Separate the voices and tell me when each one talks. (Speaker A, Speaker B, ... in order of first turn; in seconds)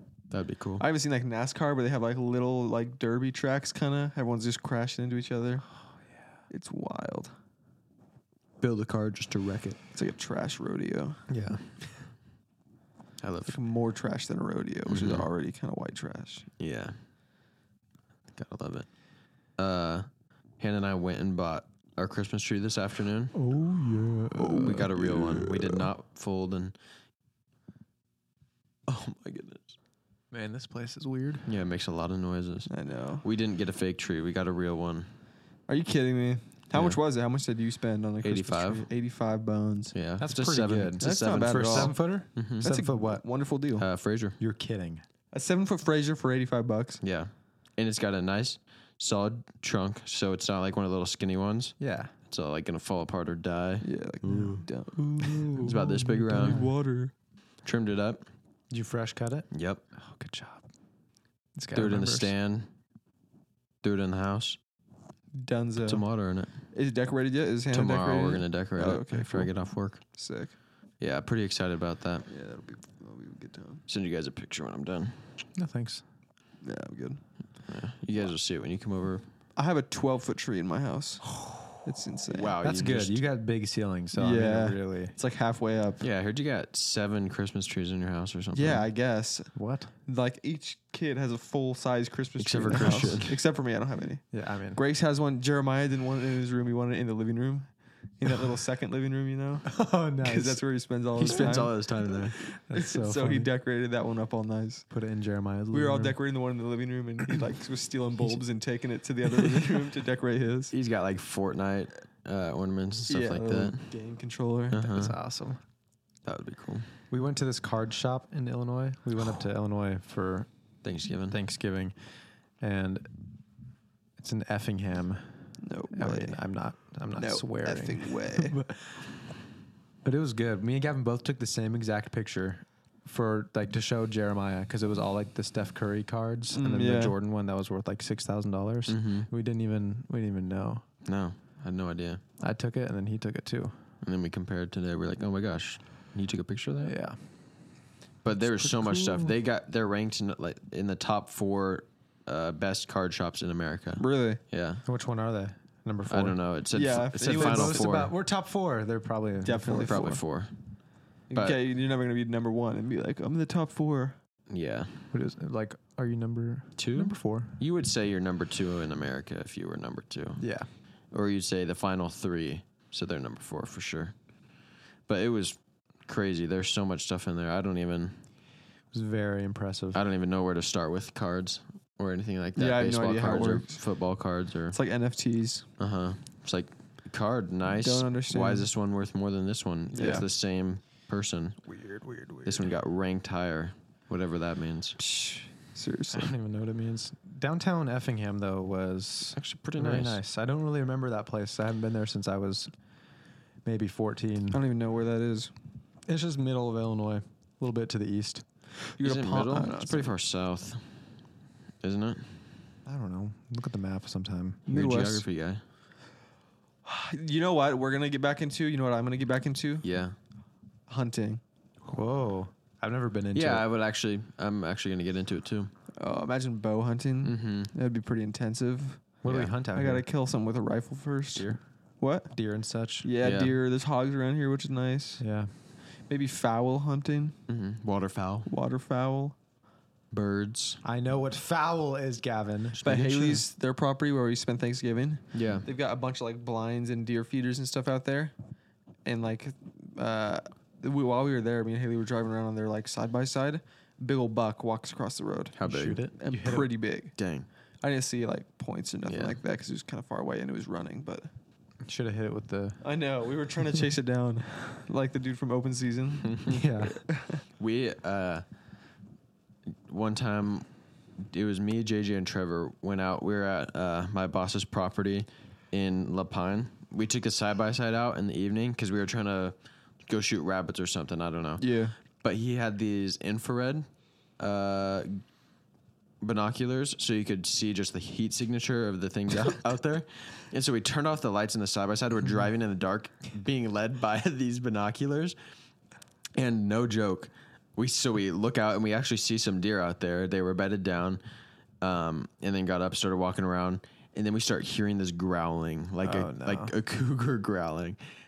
Speaker A: 0.3-0.8, 8.6-9.8, 13.2-13.6, 14.9-15.3, 16.6-17.0, 18.3-18.9, 19.6-20.1, 20.6-23.4, 24.4-26.8, 28.9-29.8, 31.5-32.7, 33.2-35.1, 36.7-37.0, 38.2-38.9, 39.9-42.7, 43.8-44.4, 47.0-54.6, 55.5-56.7, 57.6-58.2, 59.5-59.8, 61.8-62.7, 63.8-64.6, 65.9-66.6, 67.7-70.0, 71.0-72.3, 73.9-75.2, 77.7-79.2, 82.3-83.2, 86.0-88.8, 92.4-93.4, 101.2-102.4, 110.7-113.9, 114.7-115.2, 116.2-116.9, 120.8-121.4, 138.9-139.3, 141.1-142.2, 144.0-146.9, 148.2-154.8, 156.1-158.1, 159.8-160.5, 161.3-161.6, 164.5-165.0, 166.8-170.4, 171.1-174.2, 175.1-178.2, 179.9-184.8, 185.8-191.6, 192.4-195.0, 199.3-200.2, 209.0-210.9, 211.8-212.4, 214.7-215.6, 219.8-220.2, 223.3-225.7, 227.2-227.7, 229.3-229.5, 233.2-233.6, 237.5-238.5, 240.1-240.8, 242.8-243.4, 245.3-245.7, 255.6-256.0, 257.1-257.5, 259.1-259.4, 266.2-266.6, 267.6-268.4, 269.9-270.7, 271.2-281.7, 282.2-283.9, 284.4-285.2, 286.2-295.4, 296.4-301.2, 301.8-308.0
Speaker B: 0.8-5.7, 6.5-7.3, 9.9-11.3, 13.5-16.5, 24.4-25.9, 32.7-33.2, 35.7-39.9, 41.0-42.0, 42.6-43.9, 45.3-47.0, 53.8-55.6, 56.3-57.1, 65.4-66.0, 66.7-69.5, 70.0-70.6, 72.3-73.8, 76.6-77.2, 79.6-82.6, 84.2-86.0, 88.5-104.9, 105.7-110.7, 113.1-114.9, 125.6-126.4, 127.2-128.6, 136.5-137.2, 154.0-154.4, 156.7-157.9, 159.4-160.2, 161.3-164.2, 182.6-183.8, 184.7-185.7, 187.8-188.7, 189.9-190.3, 195.0-196.3, 204.5-205.5, 209.0-210.1, 214.7-215.2, 216.8-219.8, 220.9-221.4, 226.0-229.2, 229.7-232.3, 233.0-235.2, 236.1-237.4, 238.5-239.4, 242.8-248.3, 249.1-255.6, 256.1-257.1, 257.8-261.3, 262.8-267.4, 281.6-281.9
Speaker C: 11.3-11.9, 23.3-24.9, 30.3-31.5, 40.2-43.2, 44.4-45.0, 51.8-52.1, 54.3-56.7, 58.7-60.7, 61.6-62.3, 75.6-76.0, 82.6-85.2, 89.5-89.9, 94.3-94.8, 99.7-100.6, 101.3-101.6, 102.7-103.5, 104.9-106.2, 114.9-115.6, 117.1-120.5, 121.3-122.0, 122.6-123.1, 124.2-125.4, 125.9-129.2, 130.0-140.8, 142.4-143.8, 146.8-147.2, 148.4-149.3, 154.8-156.4, 157.2-160.1, 165.1-167.6, 170.4-170.7, 178.9-180.0, 191.7-192.7, 196.1-202.7, 203.7-204.6, 206.1-208.5, 212.9-214.6, 221.9-223.7, 229.2-230.0, 232.3-233.1, 235.2-235.5, 240.8-243.0, 255.6-256.7, 261.8-262.8, 266.5-267.0, 306.0-306.7